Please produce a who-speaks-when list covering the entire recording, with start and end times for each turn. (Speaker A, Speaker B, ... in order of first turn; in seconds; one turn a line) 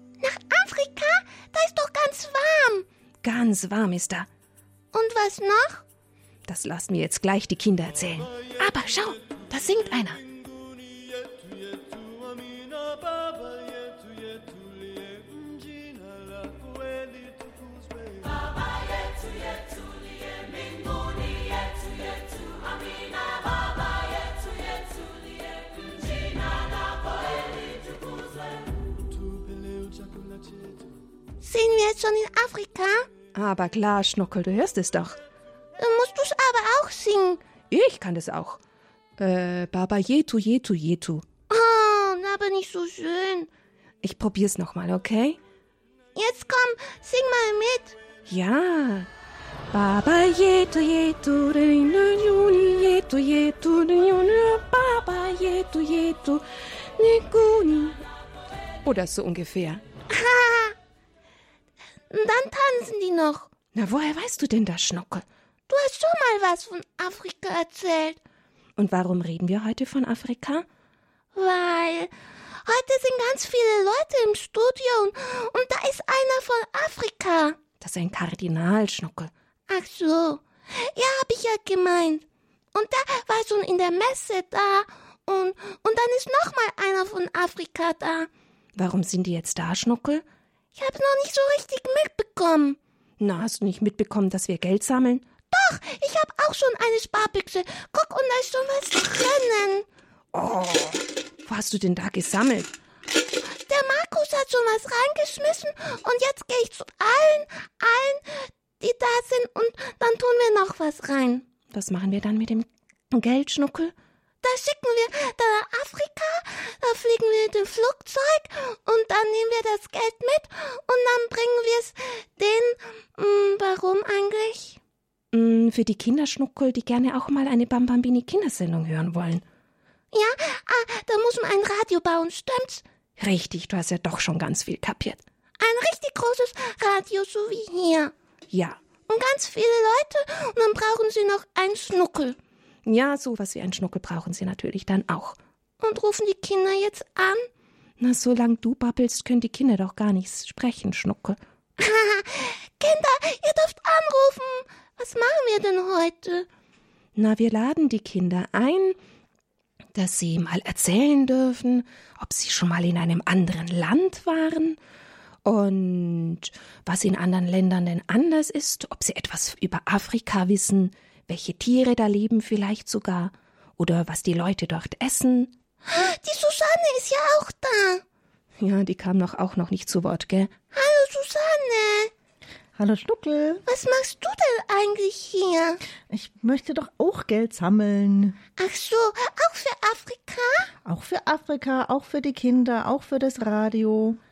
Speaker A: 0.2-2.9
Speaker B: 3.2-4.3
Speaker A: 4.9-5.8
Speaker B: 6.5-10.2
Speaker A: 31.4-33.0
Speaker B: 33.3-35.2
Speaker A: 35.8-37.4
Speaker B: 37.7-38.6
Speaker B: 39.2-41.2
Speaker A: 41.5-43.5
Speaker B: 44.0-45.4
Speaker A: 46.1-48.0
Speaker B: 48.3-49.1
Speaker B: 49.7-58.0
Speaker B: 58.8-59.8
Speaker A: 60.1-60.8
Speaker A: 62.1-63.5
Speaker B: 63.7-65.2
Speaker A: 65.7-68.2
Speaker B: 68.8-70.6
Speaker A: 71.3-72.1
Speaker A: 72.6-77.6
Speaker B: 77.8-79.3
Speaker A: 79.7-88.3
Speaker B: 88.8-90.2
Speaker A: 90.7-92.8
Speaker B: 93.2-95.3
Speaker A: 95.5-99.9
Speaker B: 100.3-102.7
Speaker A: 103.5-111.5
Speaker B: 111.7-113.9
Speaker A: 114.4-124.8
Speaker B: 125.3-129.4
Speaker A: 130.1-132.8
Speaker B: 133.2-135.2
Speaker A: 135.6-138.1
Speaker B: 138.5-138.8
Speaker A: 139.1-142.4
Speaker B: 142.8-145.3
Speaker A: 145.8-147.5
Speaker B: 148.0-151.4
Speaker A: 151.8-156.5
Speaker B: 157.2-159.0
Speaker B: 159.9-164.8
Speaker B: 165.4-175.5
Speaker A: 175.8-178.0
Speaker B: 178.6-180.5
Speaker A: 180.7-182.1
Speaker C: 182.8-183.6
Speaker A: 183.7-185.8
Speaker C: 186.1-188.4
Speaker A: 188.6-190.7
Speaker C: 190.8-194.2